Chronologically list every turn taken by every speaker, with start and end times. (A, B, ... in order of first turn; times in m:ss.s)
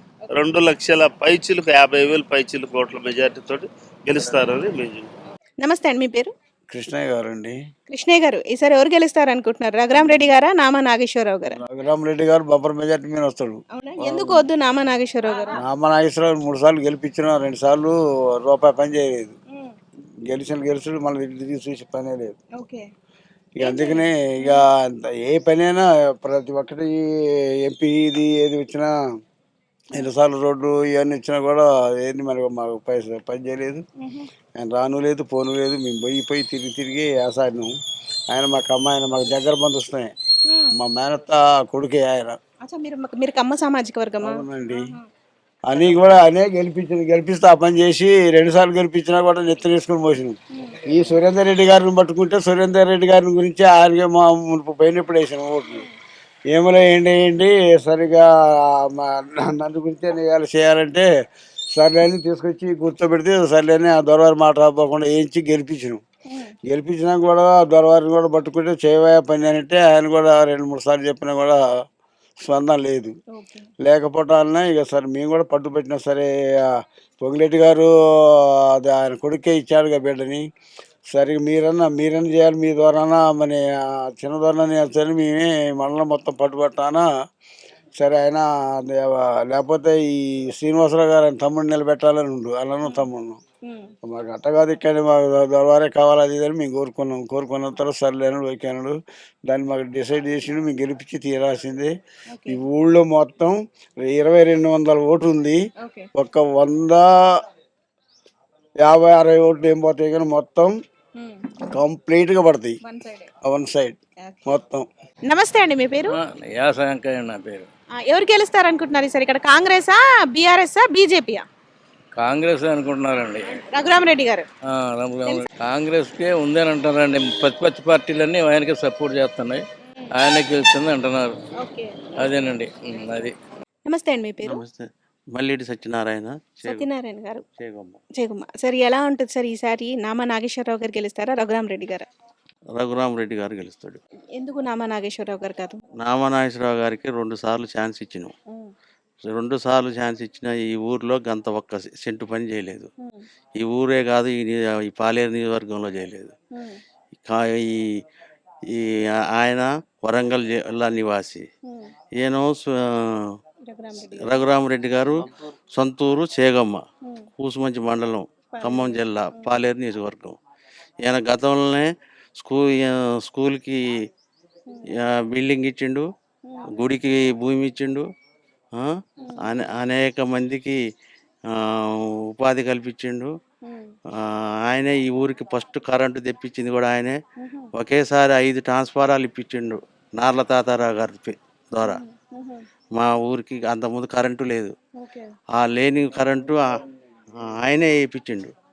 0:00.4-0:05.1 A
0:05.6-0:06.3 B
0:06.7-0:07.6 C
0:07.9-0:11.6 B
0:11.6-0:14.4 C
0:13.7-0:15.6 B
0:15.6-0:19.3 C
0:20.3-0:22.4 C
0:22.6-0:22.9 B
0:23.6-0:27.0 C
0:23.6-0:24.7 B
0:27.6-0:28.9 C
0:30.0-0:33.8 C
0:34.0-0:34.3 B
0:34.6-0:37.7 C
0:38.3-0:40.1 C
0:40.5-0:40.8 B
0:40.8-0:42.4 C
0:42.6-0:45.0 B
0:44.2-0:44.8 C
0:45.7-0:55.8 C
0:56.5-1:01.1 C
1:01.8-1:06.0 C
1:06.3-1:06.6 B
1:06.7-1:11.6 C
1:12.4-1:13.1 C
1:13.4-1:13.7 B
1:13.8-1:16.3 C
1:17.2-1:17.9 C
1:18.8-1:20.4 C
1:21.1-1:27.1 C
1:28.0-1:33.4 C
1:33.6-1:33.9 B
1:34.0-1:41.9 C
1:42.3-1:42.6 B
1:42.5-1:45.6 C
1:45.8-1:46.1 B
1:46.2-1:47.1 C
1:48.8-1:50.7 C
1:51.2-1:51.5 B
1:51.7-1:52.8 C
1:52.8-1:53.3 B
1:53.4-1:54.0 C
1:54.5-1:54.9 C
1:55.3-1:56.2 B
1:56.1-1:57.7 D
1:58.0-2:01.5 B
2:02.2-2:03.4 D
2:03.5-2:04.5 B
2:04.7-2:09.6 D
2:10.2-2:11.3 D
2:11.6-2:12.3 B
2:12.2-2:13.4 D
2:13.9-2:14.6 B
2:14.4-2:16.9 E
2:16.6-2:17.4 B
2:17.6-2:18.0 E
2:18.2-2:22.1 B
2:22.8-2:24.0 E
2:24.4-2:25.8 B
2:26.0-2:28.3 E
2:29.2-2:32.9 E
2:33.6-2:36.4 E
2:36.5-2:36.8 B
2:37.2-2:38.0 E
2:38.7-2:41.5 E
2:42.2-2:43.3 E
2:43.7-2:44.4 B
2:44.1-2:46.8 E
2:47.4-2:50.4 E
2:48.5-2:49.6 B
2:51.0-2:53.9 E
2:54.9-2:56.1 E
2:56.7-2:58.1 E
2:58.8-3:00.8 E
3:01.5-3:03.3 E
3:03.6-3:03.9 B
3:04.2-3:07.2 E
3:07.4-3:07.7 B
3:07.8-3:12.0 E
3:11.8-3:12.6 B
3:12.9-3:14.7 E
3:15.0-3:15.3 B
3:15.6-3:16.6 E
3:17.4-3:18.5 E